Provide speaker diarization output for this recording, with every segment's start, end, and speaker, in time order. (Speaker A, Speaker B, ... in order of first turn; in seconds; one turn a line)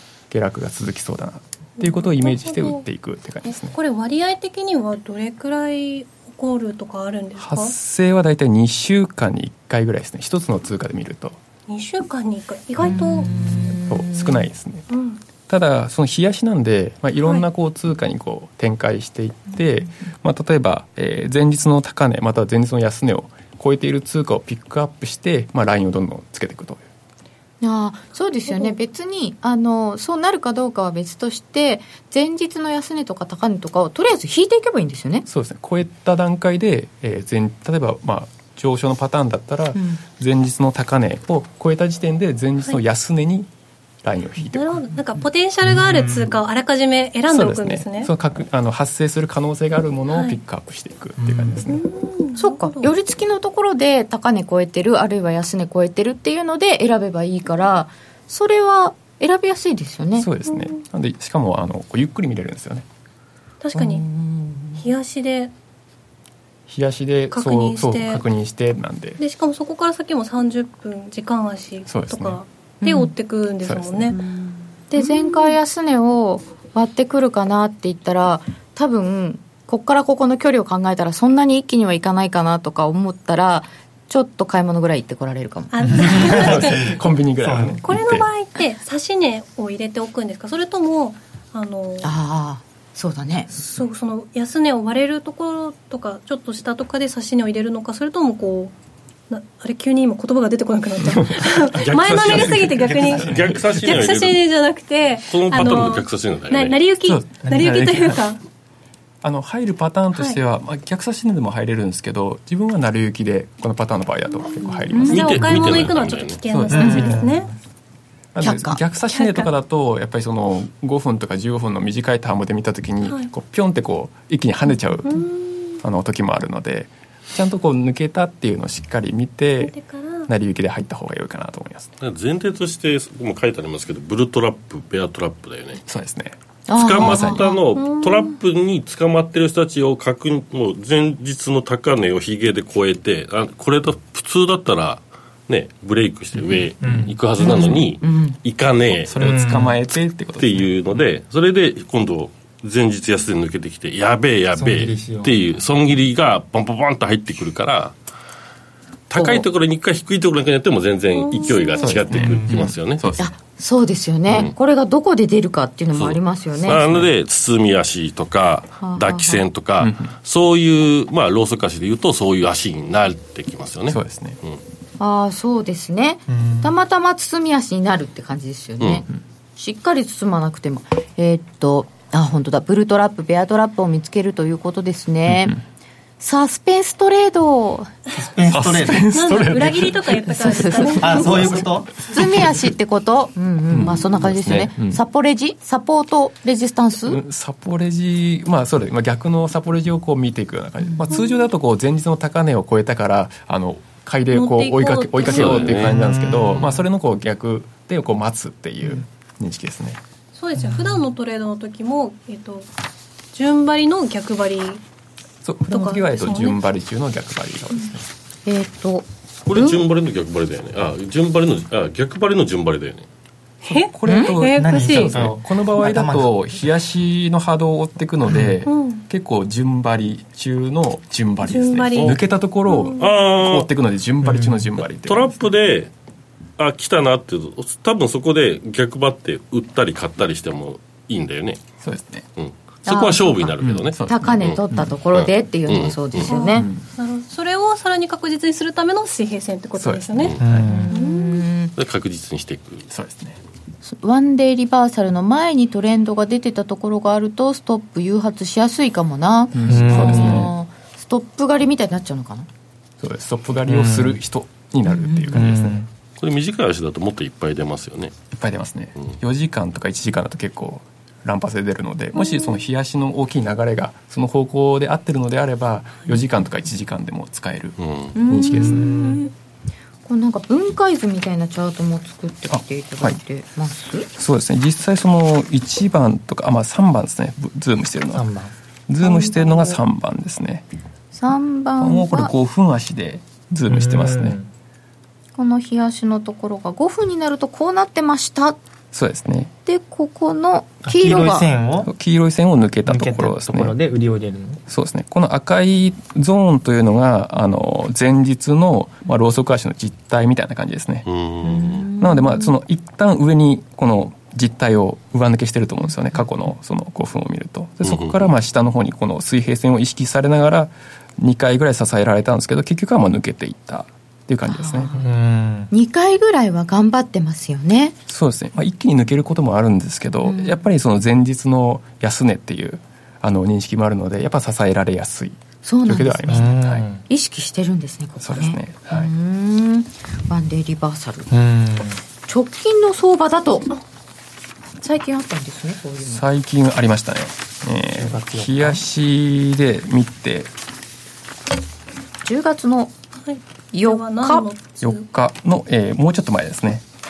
Speaker A: 0.3-3.8
Speaker B: 1.8-2.8
Speaker B: 3.5-7.7
Speaker A: 7.4-11.4
Speaker B: 11.7-13.3
Speaker C: 12.8-14.5
Speaker A: 13.8-14.8
Speaker B: 14.9-15.2
Speaker A: 15.4-26.8
Speaker C: 27.6-35.2
Speaker B: 28.5-28.7
Speaker A: 35.2-43.5
Speaker C: 39.7-40.0
Speaker A: 44.0-44.9
Speaker B: 44.5-48.1
Speaker D: 45.7-46.3
Speaker A: 47.3-51.8
Speaker B: 50.1-50.4
Speaker D: 51.2-51.8
Speaker B: 51.7-52.9
Speaker C: 52.4-60.3
Speaker A: 60.2-62.9
Speaker B: 60.5-60.7
Speaker B: 63.6-64.0
Speaker C: 63.7-64.8
Speaker B: 64.8-65.5
Speaker A: 66.7-69.2
Speaker B: 67.3-68.2
Speaker B: 69.2-74.3
Speaker A: 71.8-72.4
Speaker C: 72.8-73.1
Speaker A: 73.6-74.2
Speaker C: 74.9-86.1
Speaker B: 74.9-75.6
Speaker B: 85.7-87.0
Speaker D: 85.9-87.8
Speaker A: 86.3-88.3
Speaker B: 87.8-92.1
Speaker C: 92.0-93.5
Speaker B: 93.6-98.7
Speaker B: 99.3-108.4
Speaker A: 101.0-103.6
Speaker E: 101.7-104.4
Speaker D: 102.8-103.8
Speaker E: 105.3-106.8
Speaker A: 105.6-105.9
Speaker A: 107.0-108.2
Speaker A: 109.2-115.9
Speaker C: 114.9-115.2
Speaker B: 114.9-117.5
Speaker E: 115.0-116.4
Speaker A: 116.5-117.3
Speaker D: 116.7-117.5
Speaker A: 118.3-125.2
Speaker C: 118.4-118.8
Speaker B: 119.1-119.5
Speaker B: 123.0-123.3
Speaker B: 125.0-125.8
Speaker A: 125.8-129.7
Speaker B: 129.6-130.3
Speaker A: 130.3-131.9
Speaker E: 132.0-135.8
Speaker A: 135.8-136.3
Speaker C: 136.7-137.6
Speaker E: 136.8-149.1
Speaker A: 136.9-137.5
Speaker B: 137.8-138.3
Speaker D: 146.8-147.7
Speaker C: 147.4-148.4
Speaker A: 147.4-147.8
Speaker A: 149.0-150.7
Speaker D: 149.1-149.8
Speaker E: 150.4-158.0
Speaker D: 154.5-155.4
Speaker E: 159.1-163.0
Speaker C: 159.1-159.5
Speaker B: 161.1-162.0
Speaker A: 161.8-163.3
Speaker D: 162.1-162.7
Speaker C: 163.2-166.8
Speaker E: 164.3-164.5
Speaker E: 165.9-174.6
Speaker A: 166.7-167.1
Speaker C: 168.8-169.4
Speaker A: 169.8-170.1
Speaker A: 173.9-174.4
Speaker C: 175.0-185.6
Speaker D: 176.3-176.7
Speaker C: 186.2-187.9
Speaker D: 188.2-189.1
Speaker A: 188.5-192.5
Speaker B: 189.1-191.6
Speaker C: 190.4-191.3
Speaker D: 191.0-192.1
Speaker C: 192.1-197.2
Speaker A: 193.7-195.0
Speaker A: 197.1-210.0
Speaker C: 200.8-201.1
Speaker B: 204.3-205.8
Speaker E: 205.2-206.0
Speaker D: 205.7-206.8
Speaker B: 210.3-212.7
Speaker D: 210.6-211.0
Speaker B: 213.3-214.8
Speaker A: 215.4-218.1
Speaker B: 215.7-216.6
Speaker C: 218.4-219.8
Speaker E: 219.4-223.1
Speaker B: 223.6-225.3
Speaker A: 223.7-235.3
Speaker C: 224.1-224.3
Speaker D: 224.6-226.3
Speaker D: 228.3-228.5
Speaker B: 228.6-229.0
Speaker B: 231.4-233.1
Speaker E: 233.0-233.7
Speaker D: 234.2-234.6
Speaker E: 235.0-235.9
Speaker E: 236.6-241.6
Speaker A: 241.8-242.3
Speaker E: 242.4-246.3
Speaker C: 242.8-243.5
Speaker A: 243.6-244.9
Speaker C: 244.0-246.7
Speaker B: 246.2-250.4
Speaker A: 246.5-246.8
Speaker A: 249.8-250.8
Speaker D: 250.4-250.9
Speaker C: 250.7-251.7
Speaker B: 250.9-251.5
Speaker E: 251.7-252.9
Speaker A: 252.9-253.4
Speaker C: 253.8-262.5
Speaker A: 259.5-260.5
Speaker D: 259.7-260.5
Speaker A: 263.0-265.8
Speaker D: 263.7-264.2
Speaker C: 264.8-265.4
Speaker D: 265.3-265.9
Speaker E: 266.2-268.1
Speaker A: 268.3-278.9
Speaker E: 277.8-278.1
Speaker C: 278.1-279.3
Speaker D: 278.5-279.2
Speaker C: 280.1-284.1
Speaker A: 282.5-283.2
Speaker A: 284.1-288.3
Speaker D: 288.1-288.5
Speaker A: 288.9-290.6
Speaker C: 289.0-289.8
Speaker C: 291.1-292.3
Speaker A: 291.8-294.4
Speaker D: 293.7-294.5
Speaker C: 295.4-298.6
Speaker A: 298.9-299.5
Speaker C: 299.6-301.5
Speaker D: 300.8-301.9
Speaker A: 301.8-303.8
Speaker D: 302.9-304.6
Speaker A: 304.7-311.1
Speaker E: 311.1-311.9
Speaker C: 311.4-312.5
Speaker A: 312.0-325.0
Speaker E: 317.8-318.3
Speaker C: 324.4-325.0
Speaker D: 324.9-325.7
Speaker C: 325.7-327.9
Speaker A: 328.1-336.9
Speaker C: 330.2-330.6
Speaker C: 335.6-336.5
Speaker D: 336.3-337.0
Speaker C: 337.1-341.3
Speaker A: 338.2-339.1
Speaker D: 341.3-342.0
Speaker C: 342.3-343.8
Speaker C: 344.8-346.2
Speaker A: 346.0-350.5
Speaker D: 348.0-348.8
Speaker C: 352.2-352.9
Speaker B: 353.2-355.0
Speaker C: 353.7-354.5
Speaker A: 354.8-356.8